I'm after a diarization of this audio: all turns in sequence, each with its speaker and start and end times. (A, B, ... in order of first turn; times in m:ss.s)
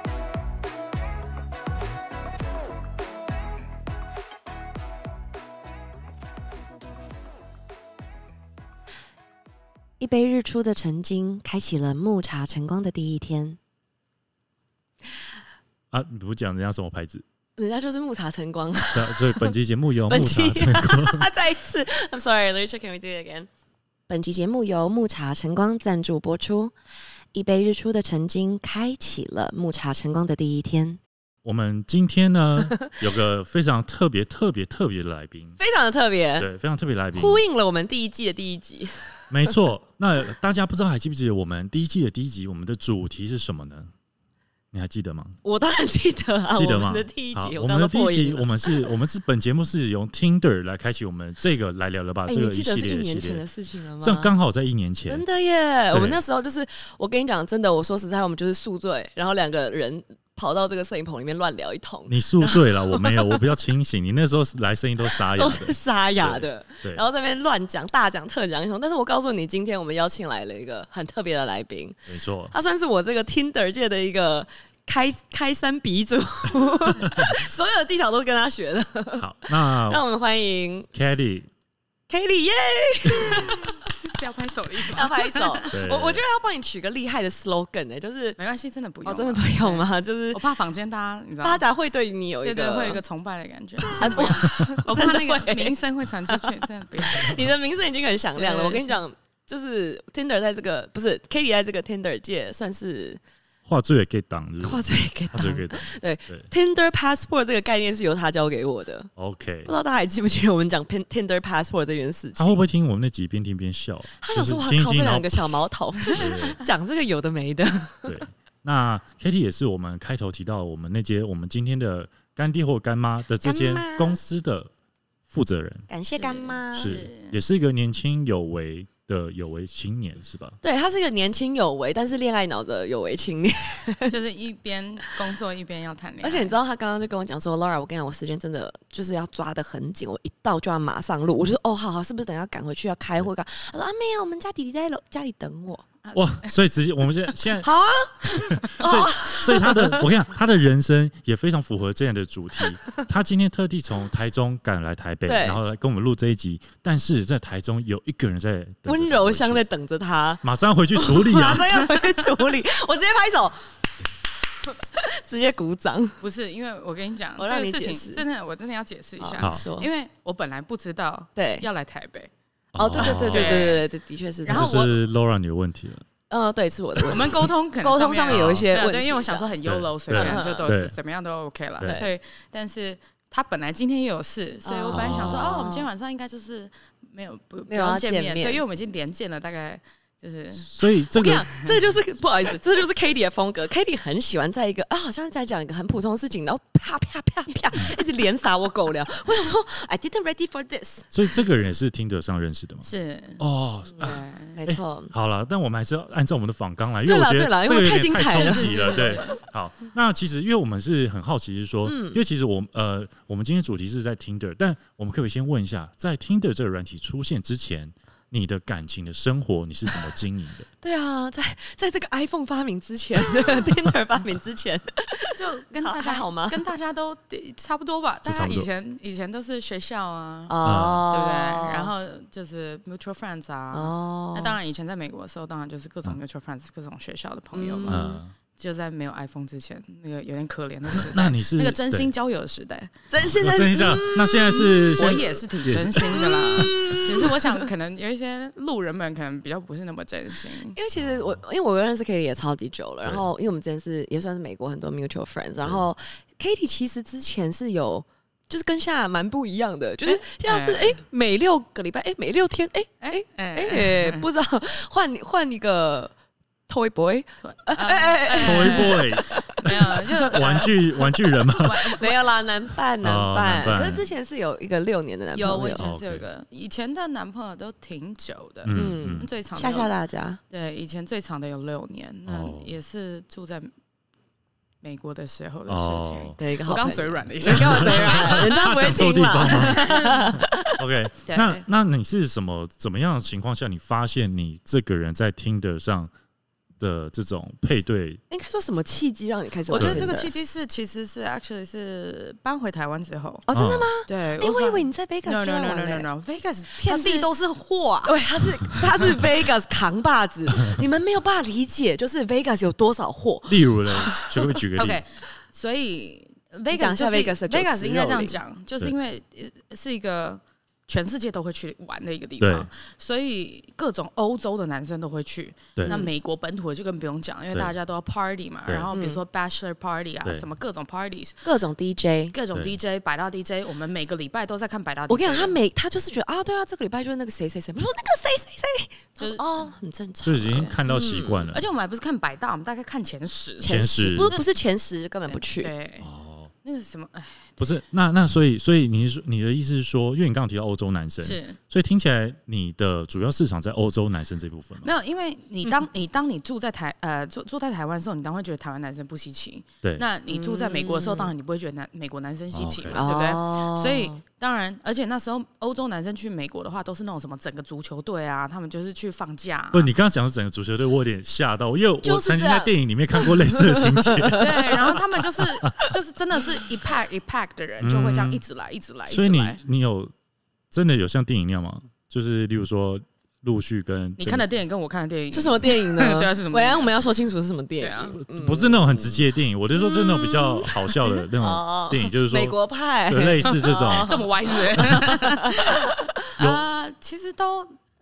0:10.0-0:13.6 A
0:15.9-0:17.2 B
0:17.6-0:19.6 A
0:18.9-0:21.3 B
0:20.1-0:23.5 A
0:24.1-0:26.7 A
0:27.3-0:31.0 A
0:31.4-0:35.6 B
0:35.6-0:36.5 A
0:36.4-0:37.4 B
0:37.2-0:39.5 A
0:39.3-0:43.9 B
0:44.7-0:45.4 B
0:45.4-0:48.7 A
0:46.5-0:53.4 B
0:52.3-0:54.3 A
0:54.0-0:55.2 B
0:55.1-1:03.3 A
0:55.9-0:56.2 B
1:02.1-1:07.0 B
1:05.3-1:20.9 A
1:12.1-1:12.5 B
1:17.0-1:17.4 B
1:19.2-1:20.0 B
1:20.9-1:21.5 B
1:22.1-1:23.8 A
1:23.7-1:25.7 C
1:24.8-1:28.4 A
1:25.7-1:26.2 B
1:28.4-1:31.6 C
1:29.0-1:30.4 A
1:31.4-1:33.0 A
1:32.4-1:37.4 C
1:33.9-1:43.2 A
1:34.1-1:34.6 B
1:38.4-1:39.0 C
1:43.7-1:46.5 B
1:44.6-1:49.1 A
1:49.2-1:49.7 B
1:49.6-1:52.6 A
1:52.4-1:56.6 B
1:54.2-1:58.2 A
1:58.0-2:04.7 B
2:03.4-2:04.2 A
2:05.3-2:05.9 B
2:05.9-2:07.0 A
2:06.2-2:07.4 C
2:06.8-2:10.6 B
2:10.6-2:14.2 A
2:14.1-2:16.6 C
2:16.2-2:25.8 A
2:26.0-2:26.5 C
2:26.1-2:27.7 B
2:27.6-2:30.1 A
2:28.4-2:39.6 B
2:28.5-2:28.8 C
2:35.3-2:35.6 A
2:38.9-2:40.4 A
2:40.4-2:42.0 B
2:41.0-2:43.7 A
2:44.6-2:46.2 A
2:46.2-2:52.3 C
2:47.4-2:48.2 A
2:49.2-2:49.9 A
2:49.4-2:49.7 B
2:51.4-2:51.7 A
2:52.7-2:53.7 B
2:52.8-2:54.8 A
2:53.0-2:53.9 C
2:54.4-2:55.0 C
2:54.5-2:56.1 B
2:56.3-2:59.5 A
2:57.0-2:57.4 B
2:57.1-3:10.7 C
2:58.3-2:58.7 B
2:59.6-3:01.0 B
3:00.1-3:00.7 A
3:01.8-3:02.1 A
3:04.6-3:05.9 A
3:04.9-3:05.5 B
3:07.7-3:08.6 A
3:10.6-3:11.5 B
3:11.1-3:21.1 A
3:21.1-3:22.9 B
3:22.8-3:23.4 C
3:23.4-3:40.7 B
3:24.0-3:24.6 C
3:24.5-3:25.1 A
3:27.0-3:29.2 A
3:28.2-3:29.4 C
3:31.8-3:32.2 A
3:40.8-3:46.7 A
3:45.4-3:50.6 C
3:48.2-3:48.7 B
3:50.5-3:51.9 A
3:50.6-3:51.1 B
3:51.1-4:02.9 C
3:53.7-3:54.6 A
3:57.5-3:58.2 A
3:57.9-3:58.3 B
4:00.9-4:02.1 B
4:03.1-4:05.3 A
4:03.2-4:06.9 B
4:05.0-4:10.8 C
4:06.0-4:07.7 A
4:10.7-4:26.1 A
4:11.0-4:11.4 B
4:20.0-4:21.0 C
4:23.0-4:24.3 C
4:26.7-4:29.1 A
4:27.4-4:32.2 C
4:28.4-4:32.0 B
4:31.9-4:35.9 A
4:33.0-4:34.1 B
4:35.4-4:39.9 C
4:35.8-4:36.3 B
4:38.6-4:39.3 B
4:38.7-4:40.4 A
4:40.5-4:43.7 C
4:42.3-4:42.7 B
4:44.8-4:48.5 C
4:45.7-4:46.4 B
4:46.4-4:50.8 A
4:47.5-4:50.1 B
4:49.5-4:50.4 C
4:50.8-4:56.1 B
4:51.3-4:51.7 C
4:56.8-4:58.2 B
4:58.3-5:00.3 A
4:59.7-5:03.5 C
4:59.7-5:00.1 B
5:03.5-5:06.1 A
5:03.5-5:03.9 B
5:04.1-5:08.2 C
5:06.8-5:07.3 A
5:08.0-5:14.4 A
5:13.5-5:15.0 B
5:14.8-5:31.5 C
5:16.7-5:18.4 A
5:22.4-5:22.7 B
5:25.9-5:26.1 A
5:28.9-5:29.2 A
5:31.4-5:32.4 A
5:32.3-5:35.6 C
5:35.1-5:41.5 A
5:39.2-5:39.8 C
5:40.2-5:41.6 B
5:41.5-5:44.5 C
5:43.6-5:45.7 A
5:43.6-5:44.4 B
5:45.3-5:46.1 C
5:46.0-5:46.5 B
5:46.6-5:47.6 C
5:47.6-5:54.9 B
5:51.2-5:51.6 C
5:54.8-6:09.9 C
6:00.3-6:01.3 A
6:02.5-6:03.0 B
6:02.9-6:04.2 A
6:09.7-6:16.0 B
6:12.0-6:14.4 A
6:14.4-6:19.6 C
6:17.8-6:18.4 B
6:19.1-6:20.1 B
6:20.7-6:24.5 B
6:24.2-6:27.0 C
6:25.3-6:29.2 A
6:27.8-6:28.2 C
6:28.2-6:34.2 B
6:29.7-6:36.1 A
6:33.5-6:37.8 C
6:36.4-6:36.6 B